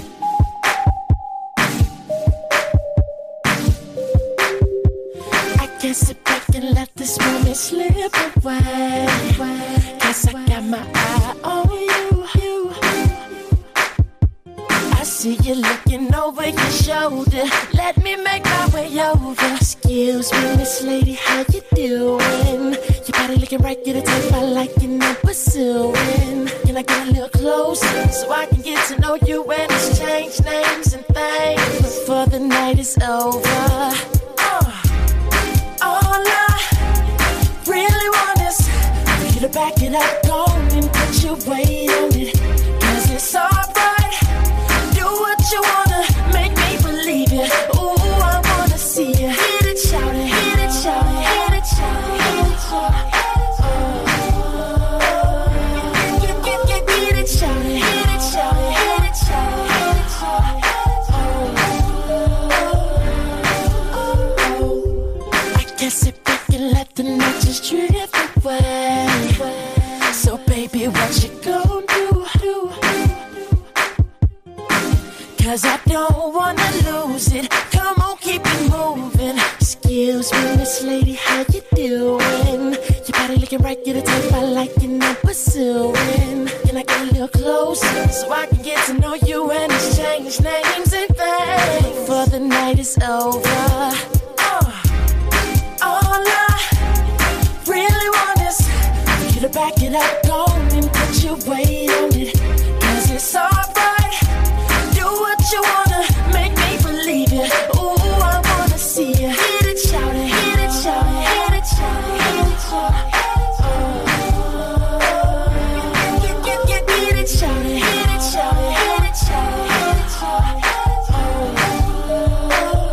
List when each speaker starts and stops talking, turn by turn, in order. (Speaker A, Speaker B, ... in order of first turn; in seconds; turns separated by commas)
Speaker A: 5.6-13.4, Speaker A: 14.9-34.9, Speaker A: 35.8-37.0, Speaker A: 37.6-44.2, Speaker A: 44.7-63.4, Speaker A: 64.1-73.5, Speaker A: 75.4-94.9, Speaker A: 95.8-97.0, Speaker A: 97.6-104.2, Speaker A: 104.7-122.0